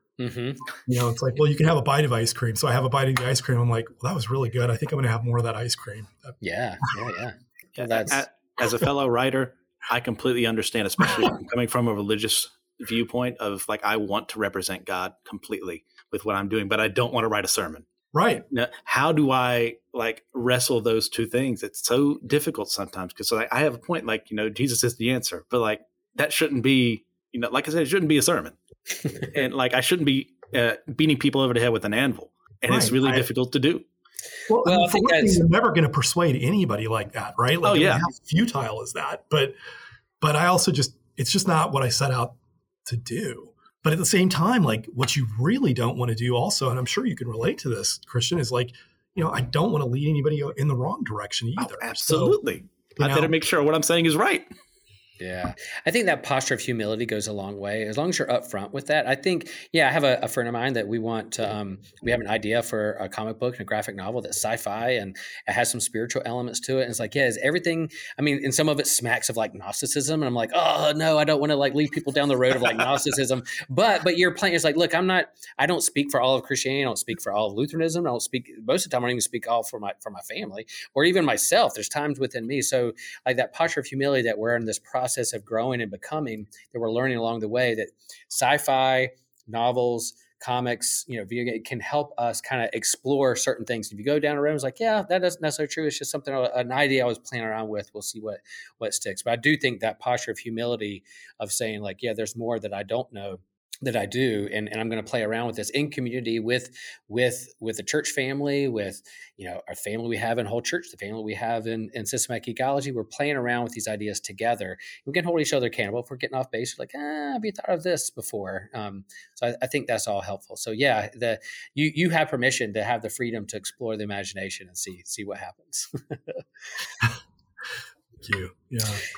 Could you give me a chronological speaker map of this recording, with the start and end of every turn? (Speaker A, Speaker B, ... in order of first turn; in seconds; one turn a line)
Speaker A: 0.2-0.7
Speaker B: 0.9-6.3
Speaker A: 6.4-8.2
Speaker C: 7.8-17.9
Speaker B: 18.1-18.5
Speaker C: 18.5-28.6
Speaker C: 29.2-33.9
Speaker B: 32.7-33.3
Speaker B: 34.5-39.5
Speaker A: 34.6-35.4
Speaker C: 37.6-38.0
Speaker B: 40.2-52.4
Speaker C: 51.6-54.5
Speaker B: 53.0-53.3
Speaker A: 55.2-126.4
Speaker B: 128.2-129.0